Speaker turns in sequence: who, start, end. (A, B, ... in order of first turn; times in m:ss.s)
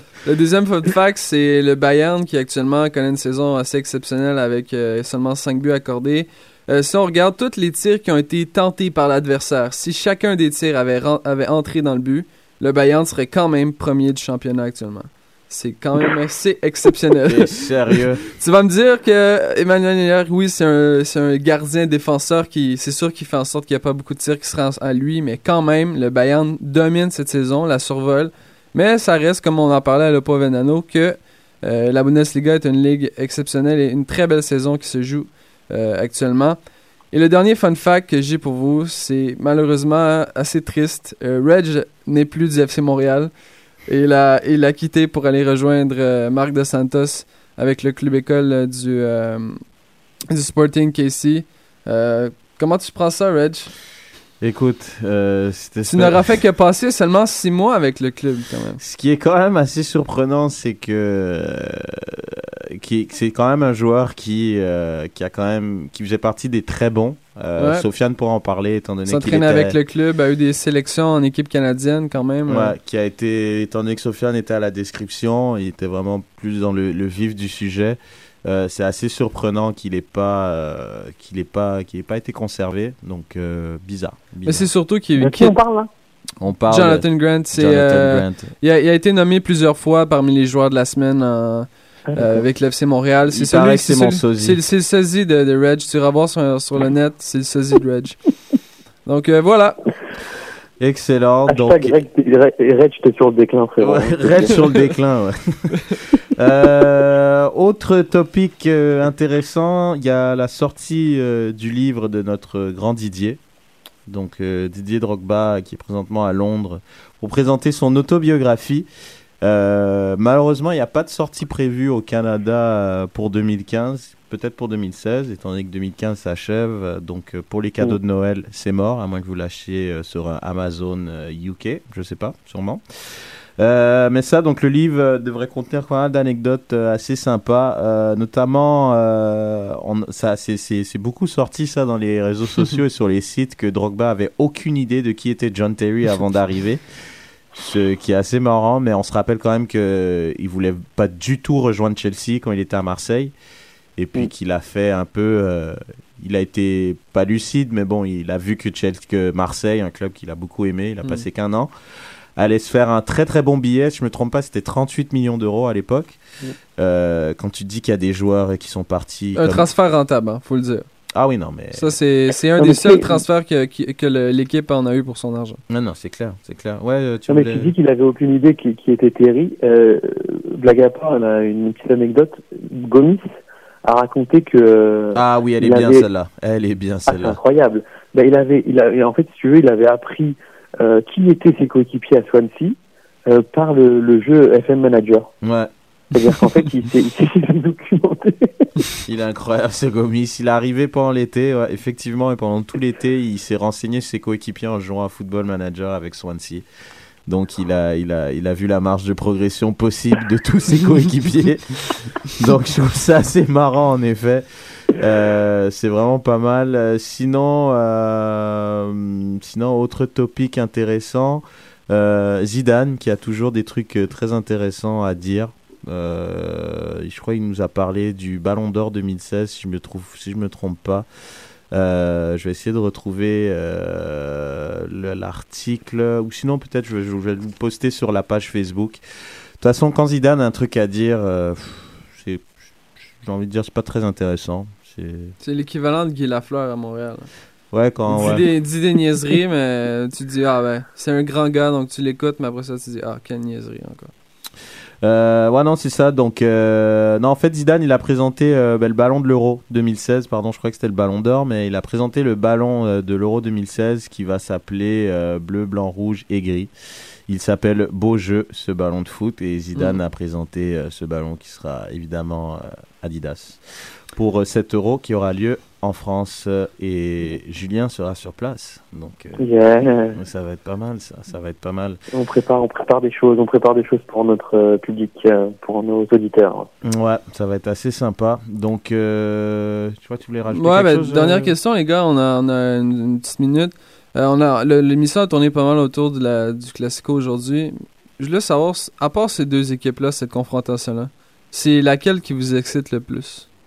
0:00.2-0:17.5 A
0:17.2-0:18.2 B
0:18.3-0:36.6 A
0:37.1-0:43.3 A
0:43.9-0:49.6 A
0:50.3-0:53.7 A
0:54.4-0:56.3 B
0:55.8-0:58.8 A
0:58.8-1:09.8 B
1:07.6-1:07.8 A
1:09.0-1:12.7 A
1:12.5-1:24.7 B
1:24.4-1:25.6 A
1:25.2-1:25.9 C
1:26.4-1:28.5 B
1:26.7-1:38.2 A
1:32.1-1:32.4 C
1:33.3-1:34.6 B
1:39.0-1:39.8 A
1:40.8-1:42.0 B
1:41.5-1:44.6 C
1:43.8-1:53.4 B
1:54.1-1:58.9 B
1:59.4-2:26.8 B
2:27.5-2:33.3 B
2:34.0-2:41.7 B
2:42.4-2:46.2 B
2:46.8-2:49.7 B
2:49.3-2:50.8 A
2:51.1-2:51.9 B
2:51.7-2:55.6 A
2:52.6-2:53.2 C
2:55.7-2:57.7 B
2:57.3-3:03.3 C
3:03.8-3:06.0 C
3:05.1-3:07.4 B
3:07.1-3:15.3 C
3:15.4-3:15.7 B
3:16.1-3:18.9 C
3:19.0-3:26.6 B
3:27.3-3:51.1 B
3:51.7-3:59.0 B
3:59.6-4:02.5 B
4:03.2-4:05.3 B
4:05.4-4:07.3 A
4:07.7-4:08.4 B
4:08.1-4:14.1 A
4:15.0-4:26.7 B
4:27.3-4:33.6 B
4:34.1-4:39.4 B
4:39.4-4:40.2 C
4:40.1-4:42.0 B
4:42.1-4:46.7 C
4:46.8-4:51.5 B
4:50.5-5:03.5 A